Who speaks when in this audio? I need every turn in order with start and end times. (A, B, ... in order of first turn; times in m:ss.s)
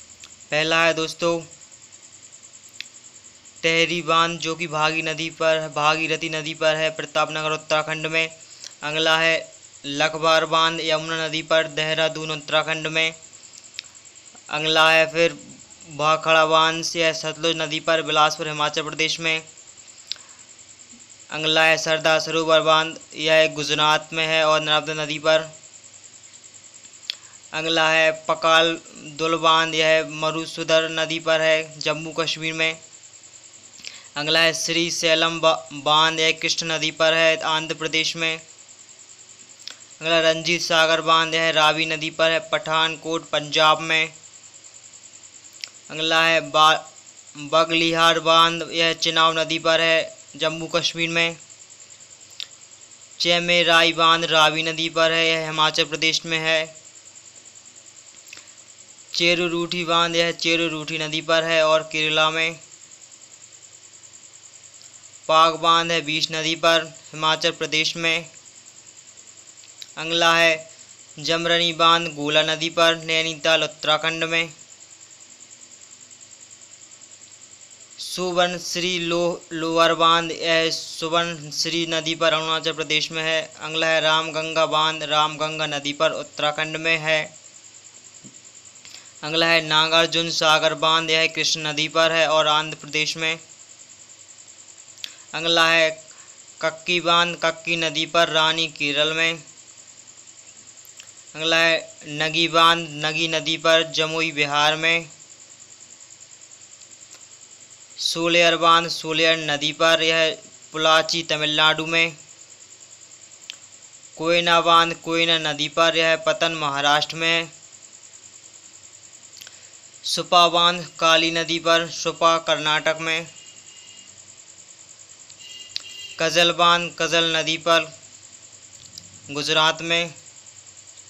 0:00.5-0:01.5 A
0:03.6-0:13.2 A
0:14.5-0:19.4 A
0:21.3-0:25.5 A
0:27.5-0:32.8 A
0:34.2-0:38.4 A
0:40.0-0:44.1 A
0:45.9-0:51.4 A
0:53.2-0:56.7 A
0:59.1-1:02.6 A
1:05.3-1:08.3 A
1:10.0-1:10.6 A
1:11.2-1:14.5 A
1:18.0-1:27.3 A
1:29.2-1:33.4 A
1:35.3-1:36.0 A
1:36.6-1:39.4 A
1:41.3-1:45.1 A
1:48.0-1:52.2 A
1:54.2-1:57.5 A
2:00.0-2:03.3 A
2:06.2-2:07.9 A
2:09.3-2:10.1 A